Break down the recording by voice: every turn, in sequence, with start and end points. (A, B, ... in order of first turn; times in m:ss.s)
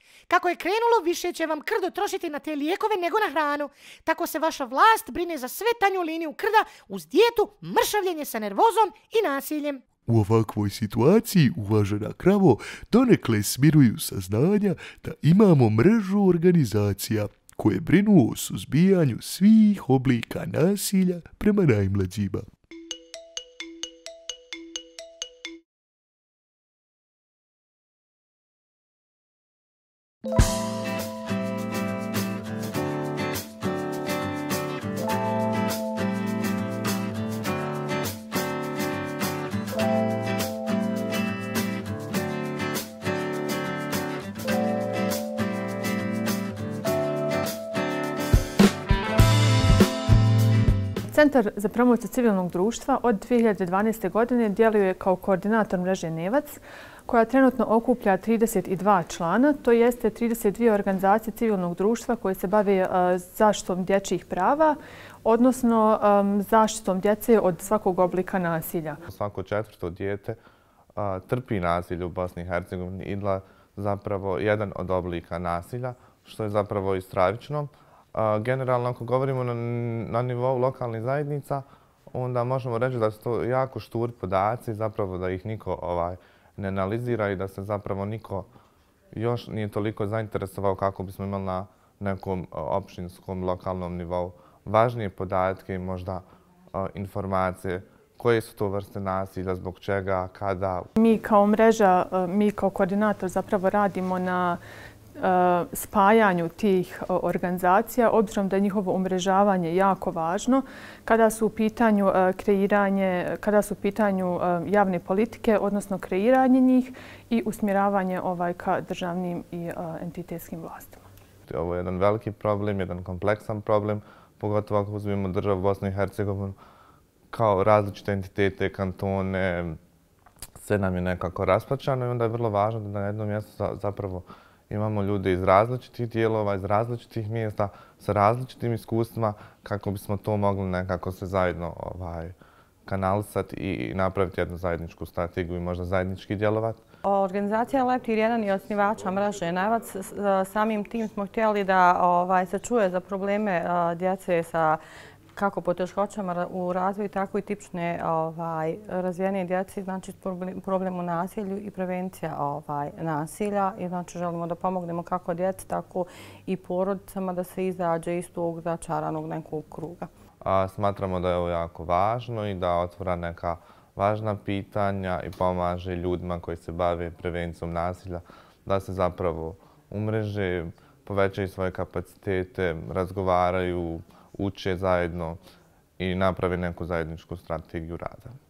0:00.3-0:09.8 A
0:10.0-0:22.4 B
0:51.1-1:09.0 C
1:09.1-1:10.4 D
1:11.0-1:28.5 D
1:29.1-1:40.9 D
1:41.0-1:44.6 C
1:45.2-2:01.0 C
2:01.5-2:06.6 D
2:07.3-2:09.8 D
2:10.6-2:22.4 D
2:22.9-2:26.8 D
2:27.0-2:34.8 E
2:35.3-2:50.1 E
2:50.4-3:05.4 D
3:06.0-3:08.3 D